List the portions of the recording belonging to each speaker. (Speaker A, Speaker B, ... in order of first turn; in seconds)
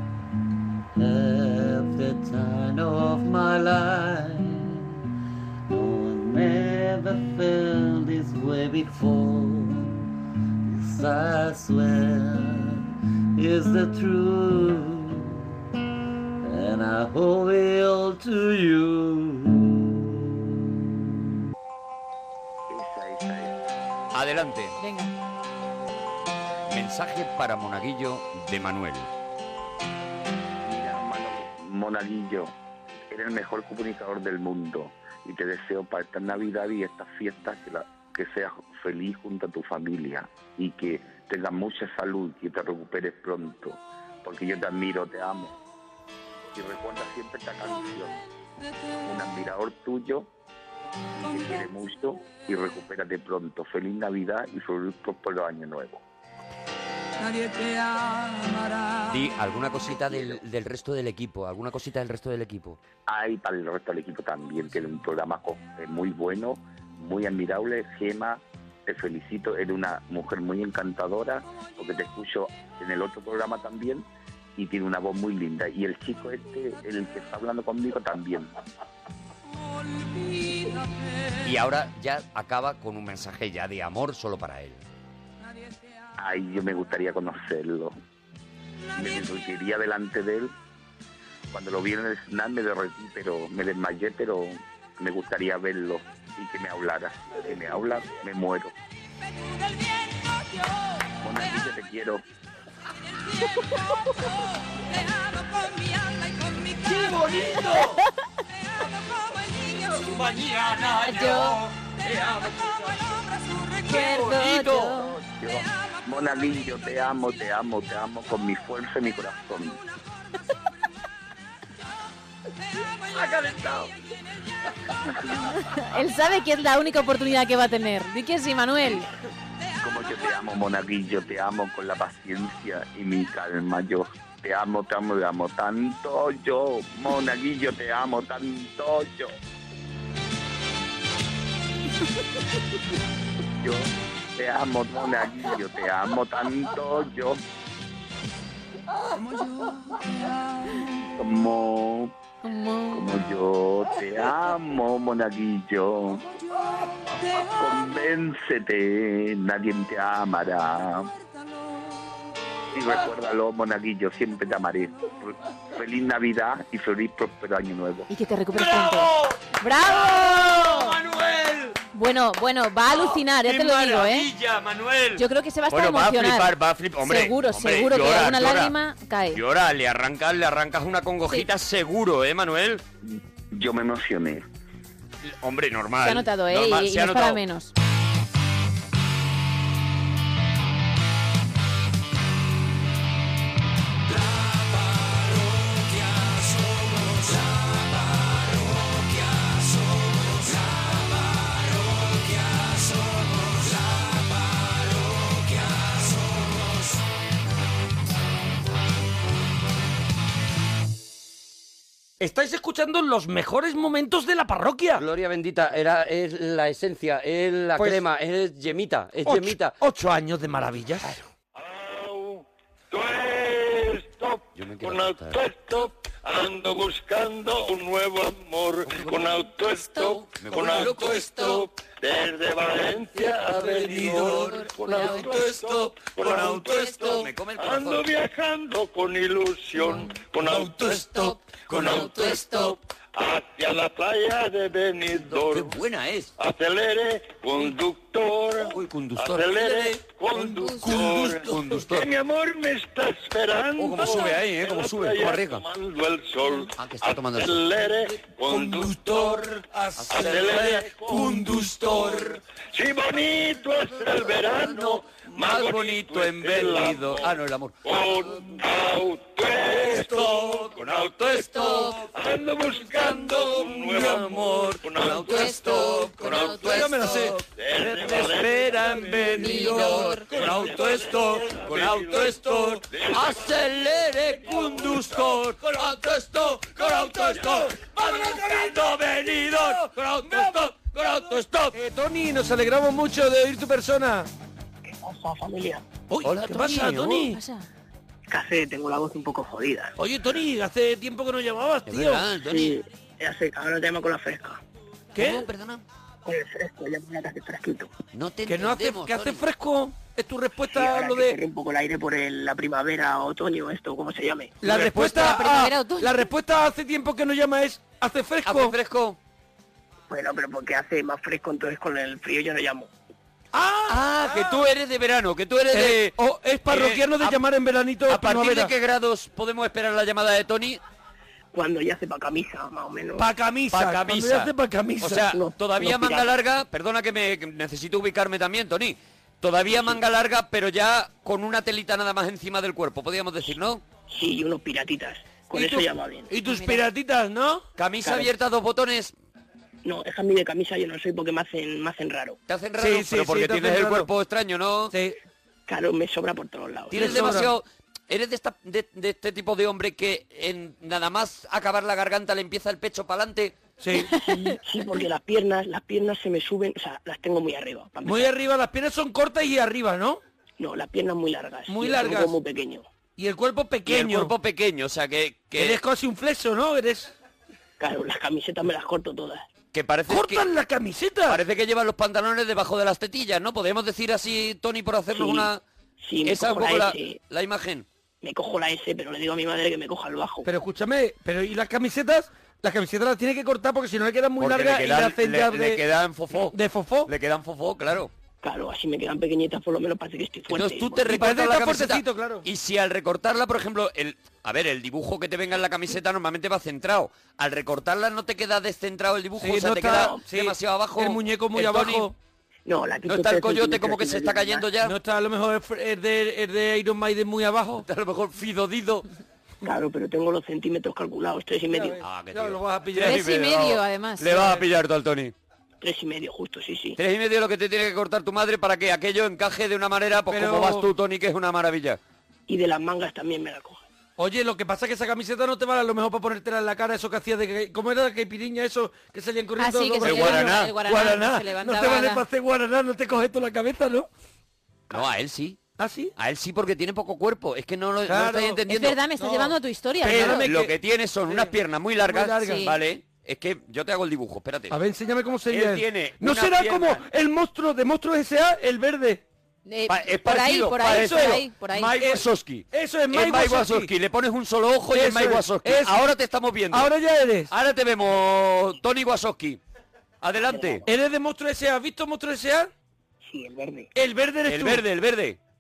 Speaker A: 1.0-4.3, 5.9-9.6, 10.9-12.4, 13.5-14.8, 16.5-19.0
Speaker B: 3.2-4.0, 5.7-6.5, 8.9-9.2, 16.7-18.9, 24.1-24.8, 26.7-29.1, 59.0-62.8, 81.4-84.8, 106.8-108.0, 109.8-115.1, 123.1-123.9, 168.6-171.8, 172.9-178.7, 179.3-182.8, 185.2-187.4, 194.2-201.1, 201.7-204.0, 205.7-206.3, 217.2-219.7, 224.6-225.4, 228.9-229.4, 230.0-231.6, 234.1-238.1, 240.6-242.8, 245.2-246.3, 248.6-249.8, 250.6-252.1, 253.8-255.7, 256.8-257.7, 258.7-262.4, 263.9-267.8, 269.9-272.1, 272.7-291.8, 296.2-297.3, 301.9-302.8, 305.2-305.8, 308.1-309.5, 314.6-315.4, 318.4-319.2, 323.9-327.4, 328.1-330.8, 333.7-343.8, 347.8-349.1, 352.5-355.0, 356.9-363.6, 373.9-375.8, 379.7-380.5, 381.3-385.6, 386.2-387.9, 394.4-398.1, 400.5-412.1, 413.1-415.0, 417.8-419.1, 422.0-425.3, 427.0-432.0, 440.0-440.8, 444.9-445.6, 446.2-449.0, 450.1-454.8, 455.5-457.1, 459.9-466.9, 467.5-469.6, 470.2-470.9, 474.5-475.4
Speaker C: 22.7-23.6, 30.6-32.5, 33.1-45.5, 46.5-48.2, 49.0-50.3, 51.2-56.0, 63.1-78.5, 86.2-88.0, 88.9-90.5, 91.5-98.7, 101.2-102.2, 115.2-119.8, 129.8-139.3, 143.6-147.4, 151.2-152.1, 152.9-156.2, 157.6-161.1, 162.7-168.1, 183.5-184.5
Speaker D: 24.8-25.1, 111.0-111.6, 113.8-115.2, 125.5-129.1, 152.4-153.0, 168.1-171.0, 171.9-174.3, 175.2-179.4, 186.0-187.7, 234.4-235.3, 236.8-237.3, 241.2-242.8, 250.7-251.0, 271.6-271.9, 275.1-276.9, 279.4-280.3, 297.3-297.6, 315.1-316.1, 346.4-346.8, 423.0-424.5, 439.6-442.2, 448.7-450.5, 452.5-452.8, 459.7-462.0
Speaker E: 212.2-215.1, 219.2-221.2, 233.6-234.5, 250.9-251.2, 260.0-260.7, 276.7-277.4, 286.8-287.6, 288.1-288.8, 289.5-290.6, 291.7-294.3, 296.1-297.4, 300.0-302.3, 305.1-305.5, 308.5-311.4, 314.6-318.8, 323.5-324.7, 325.7-328.7, 333.2-335.3, 345.5-347.7, 352.8-354.1, 354.9-355.2, 356.9-357.5, 363.8-364.1, 368.0-370.2, 371.7-372.4, 373.2-374.3, 375.6-377.1, 380.1-381.4, 390.4-395.8, 396.5-397.1, 401.1-402.5, 409.4-412.1, 414.8-417.9, 421.7-423.2, 424.3-424.6, 430.3-430.9, 434.2-444.1, 445.8-446.1, 448.1-452.7, 454.7-459.2, 460.9-461.4, 461.9-463.9, 464.9-466.1, 466.7-467.5, 470.9-472.7, 473.9-474.8
Speaker F: 215.1-219.8
Speaker G: 221.6-242.5, 243.2-245.8, 246.4-259.4, 260.1-276.9, 277.6-285.9, 287.2-288.8
Speaker H: 294.8-295.9, 298.3-299.9, 302.5-304.6, 306.2-307.9, 310.7-314.6, 320.1-322.9, 331.5-333.3, 335.2-336.4, 339.7-340.0, 344.1-346.3, 348.0-348.3, 349.8-352.4, 355.7-357.5, 364.2-368.4, 370.6-372.9, 377.8-379.5, 385.1-387.2, 388.2-390.5, 398.4-401.2, 409.9-410.2, 412.7-414.7, 419.6-422.0, 425.8-427.0, 432.5-433.9, 470.4-470.9, 473.2-473.9